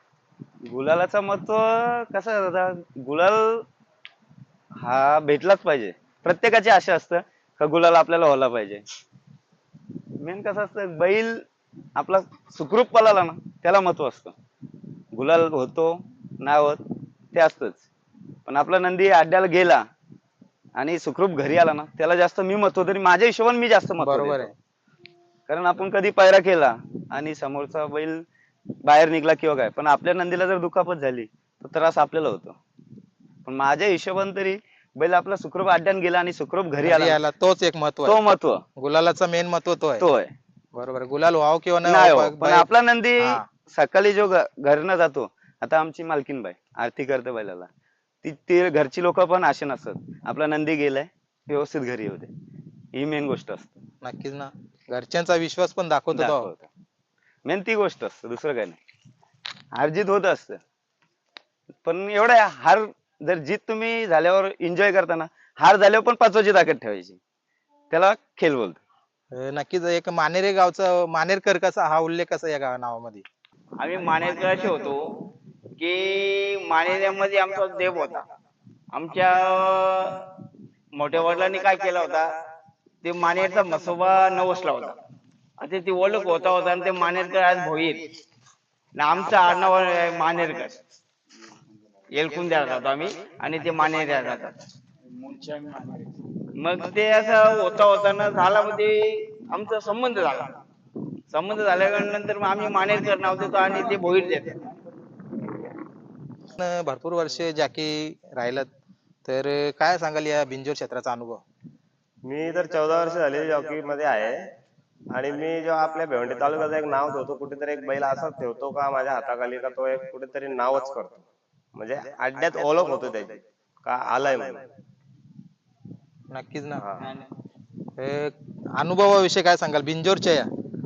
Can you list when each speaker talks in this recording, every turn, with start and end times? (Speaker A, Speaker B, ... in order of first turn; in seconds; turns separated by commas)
Speaker A: 0.6-3.6, Speaker A: 4.8-8.8, Speaker A: 10.2-11.4, Speaker A: 12.0-14.3, Speaker A: 15.1-16.8, Speaker A: 17.3-17.8, Speaker A: 18.5-19.8, Speaker A: 20.8-24.5, Speaker B: 24.0-24.5, Speaker A: 25.5-28.2, Speaker A: 28.8-32.5, Speaker A: 33.4-37.2, Speaker B: 36.8-38.2, Speaker A: 38.0-38.6, Speaker B: 38.8-40.0, Speaker A: 40.0-40.3, Speaker B: 40.7-43.4, Speaker A: 41.8-47.7, Speaker A: 48.2-52.3, Speaker A: 52.9-53.8, Speaker B: 54.0-56.5, Speaker A: 56.1-56.7, Speaker A: 57.4-58.8, Speaker A: 59.7-60.6, Speaker A: 61.8-67.2, Speaker A: 67.9-68.8, Speaker B: 69.3-73.2, Speaker C: 73.8-75.0, Speaker C: 75.8-78.2, Speaker C: 78.9-80.2, Speaker C: 81.0-82.3, Speaker C: 83.0-84.9, Speaker C: 85.6-88.0, Speaker C: 89.0-90.8, Speaker C: 92.1-94.5, Speaker C: 95.5-95.7, Speaker C: 96.6-100.5, Speaker C: 101.3-104.5, Speaker B: 106.5-108.7, Speaker B: 109.2-111.4, Speaker D: 112.2-114.5, Speaker D: 115.1-121.2, Speaker D: 121.7-124.6, Speaker B: 126.3-126.8, Speaker D: 126.8-127.1, Speaker B: 128.0-130.5